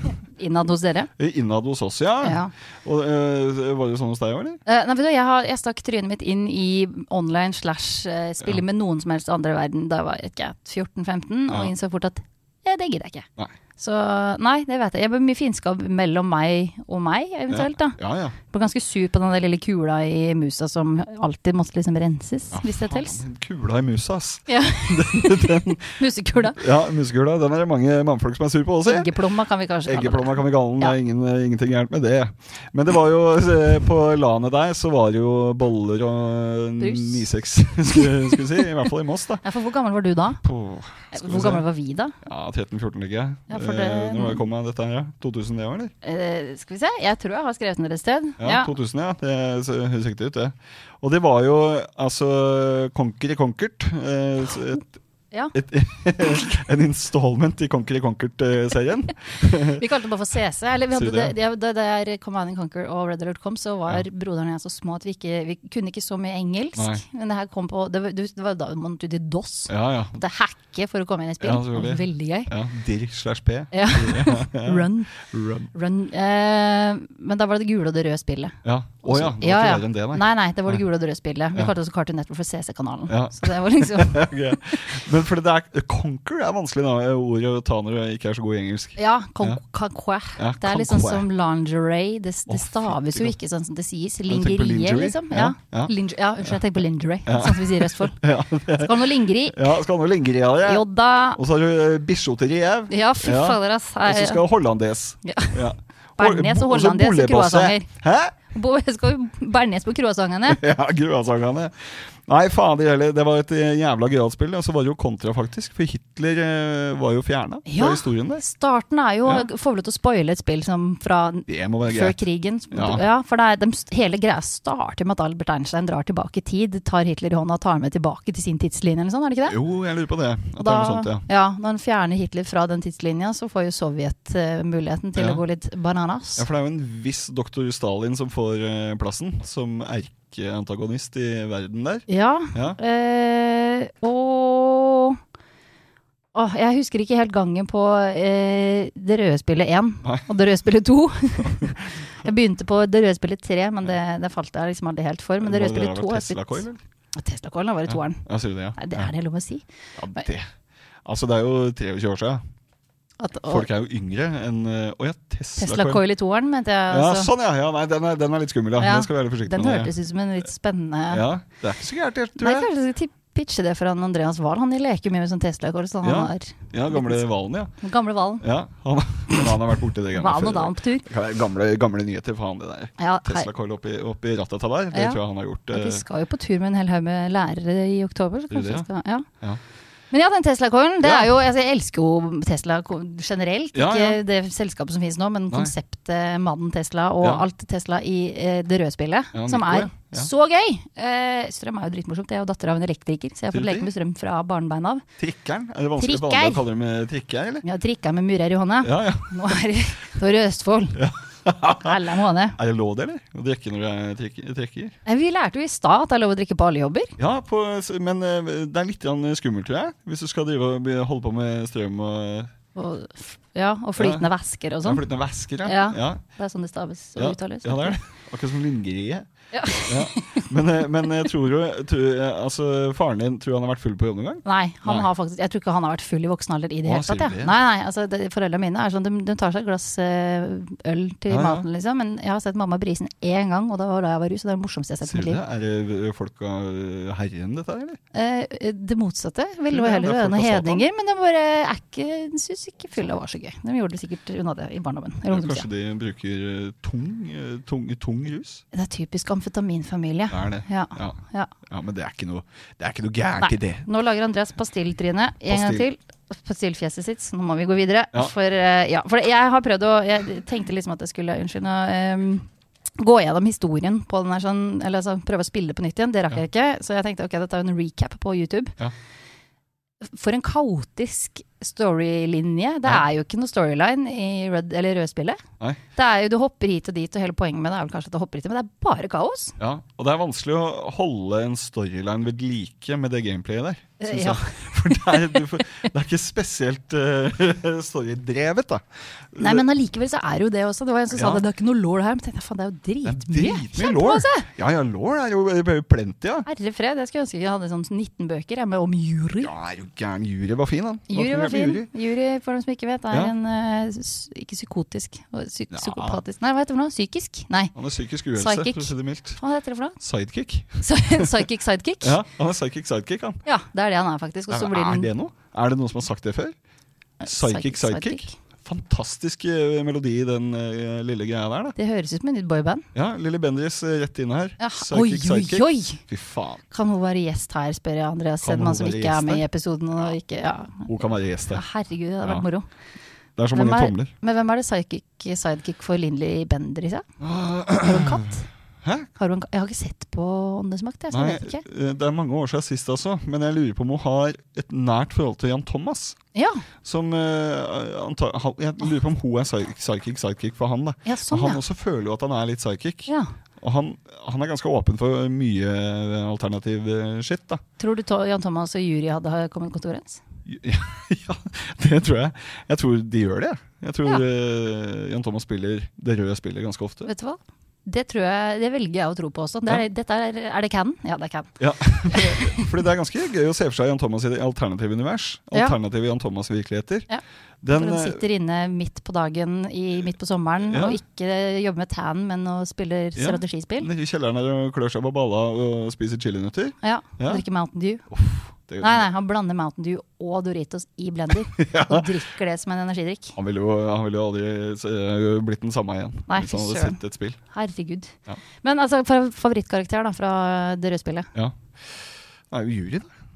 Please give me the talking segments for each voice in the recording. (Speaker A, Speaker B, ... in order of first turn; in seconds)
Speaker A: 0.3-1.1, 2.2-2.5, 4.7-23.2, 24.5-26.6, 28.8-31.0, 36.8-37.3, 37.9-38.4, 39.4-40.4, 41.1-42.2, 43.5-44.4, 46.0-48.7, 59.6-72.5, 73.7-84.9, 89.0-98.2, 98.8-99.8, 100.6-101.4, 102.9-104.4, 105.2-105.6, 106.2-107.9, 108.5-110.6, 117.7-129.6, 130.6-136.4, 142.1-145.2, 146.3-156.6, 157.2-158.3, 158.8-159.7, 163.2-163.7, 165.6-167.3, 168.8-171.3, 172.4-177.2, 177.8-178.5, 180.2-181.1, 183.0-183.5, 184.9-185.2, 185.7-189.3, 190.1-205.0, 206.0-206.6, 207.6-211.0, 211.8-212.6, 215.1-217.2, 222.8-225.1, 225.6-228.0, 229.5-230.5, 234.4-245.4, 248.1-255.7, 258.7-261.5, 263.4-272.5, 273.0-278.8, 280.0-285.4, 285.9-289.6, 294.0-295.5, 299.4-304.5, 306.5-309.5, 311.1-317.7, 318.4-320.0, 320.8-322.2, 323.5-325.1, 327.2-328.4, 331.8-332.9, 334.6-336.0, 336.7-340.9, 341.5-342.7, 343.5-347.1, 347.8-348.5, 349.2-351.6, 356.3-356.6, 361.1-361.6, 367.8-370.2, 377.1-381.5, 382.1-382.7, 387.7-393.9, 396.8-398.1, 398.8-403.4, 406.3-407.0, 407.5-411.3
Speaker B: 1.2-4.6, 17.5-18.4, 22.5-29.1, 29.9-39.4, 40.4-41.6, 42.2-45.9, 48.4-54.9, 55.5-59.9, 60.9-61.4, 66.8-67.0, 69.7-70.2, 71.4-75.7, 78.7-80.8, 83.1-89.6, 90.4-91.3, 92.5-93.3, 94.3-95.9, 97.3-108.3, 110.5-118.4, 121.5-122.2, 122.7-123.0, 129.5-131.2, 135.2-135.4, 136.4-142.8, 151.4-151.7, 155.4-156.8, 157.9-159.1, 160.0-160.5, 161.1-162.4, 163.5-166.0, 166.9-169.9, 171.1-172.7, 176.0-177.7, 178.4-186.0, 188.5-188.9, 191.0-191.3, 193.7-194.2, 199.3-200.3, 203.5-203.9, 205.2-207.6, 208.8-209.6, 211.0-212.0, 212.6-215.0, 217.2-222.5, 224.0-224.3, 224.8-226.2, 227.2-229.3, 229.9-235.1, 236.8-237.5, 241.3-241.7, 245.0-248.0, 249.7-250.8, 255.3-258.6, 260.3-263.9, 265.5-265.9, 289.6-299.6, 301.1-301.4, 303.0-306.5, 309.4-311.9, 315.7-316.2, 317.8-319.4, 320.0-321.3, 322.0-323.4, 324.5-326.6, 327.2-331.8, 332.9-336.6, 338.4-339.4, 340.9-341.6, 343.4-344.1, 347.2-348.2, 348.8-349.1, 351.1-356.2, 356.8-367.6, 370.5-377.1, 381.6-387.1, 387.6-388.2, 390.7-391.0, 393.2-397.4, 398.1-399.1, 401.6-402.1, 403.4-407.4, 411.4-413.1